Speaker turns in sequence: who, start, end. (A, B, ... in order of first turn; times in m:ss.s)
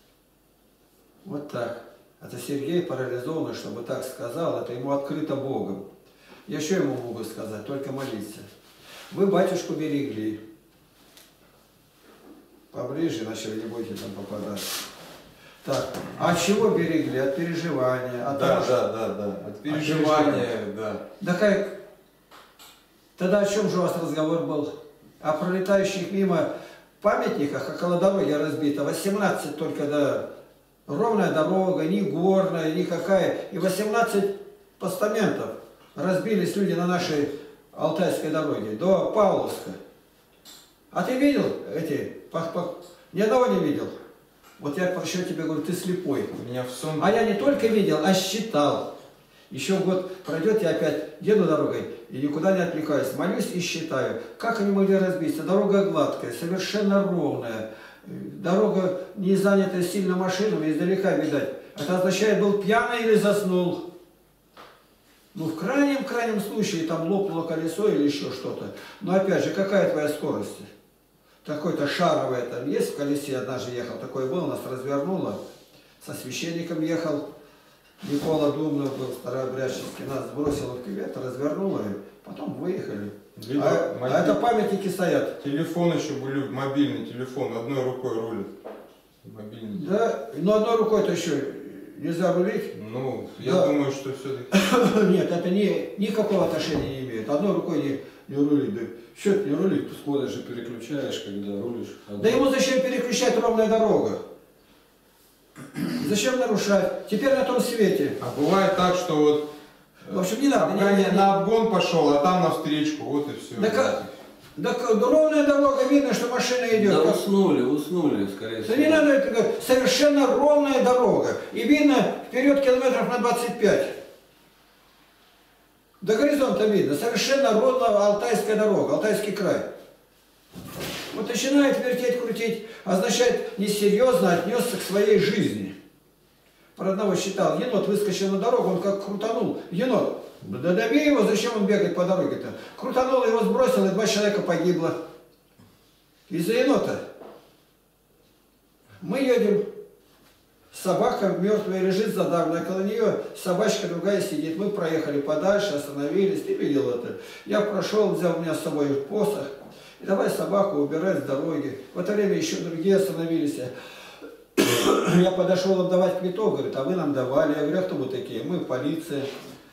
0:01.2-0:05.8 A
0:06.5-0:08.5 A
0:09.1-0:10.4 A
0:12.7-0:14.8 A
0:15.6-0:18.8 A
0:18.3-0:21.0 B
0:19.7-0:20.5 A
0:21.2-0:21.8 A
0:23.2-0:26.5 A
0:27.0-0:30.2 A
0:30.9-0:39.8 A
0:40.9-0:43.9 A
0:44.6-0:46.3 A
0:46.3-0:47.1 B
0:47.0-0:48.9 A
0:49.5-1:03.8 A
1:05.3-1:10.7 A
1:11.4-1:15.4 A
1:16.0-1:17.2 A
1:18.0-1:25.4 A
1:23.4-1:24.4 B
1:25.4-1:28.5 B
1:29.2-1:29.9 B
1:29.7-1:32.7 A
1:32.7-1:34.5 B
1:33.4-1:33.7 A
1:34.5-1:40.0 A
1:39.9-1:42.4 C
1:42.2-1:44.2 A
1:45.9-1:48.2 A
1:48.2-1:49.5 B
1:50.0-1:54.1 B
1:50.1-1:51.3 A
1:53.6-1:53.9 A
1:54.6-1:57.2 A
1:56.7-1:59.1 C
1:58.6-2:03.9 A
2:06.0-2:09.7 A
2:11.1-2:15.7 A
2:16.8-2:25.0 A
2:26.3-2:27.0 A
2:29.0-2:29.7 A
2:30.7-2:43.7 A
2:44.6-2:49.3 A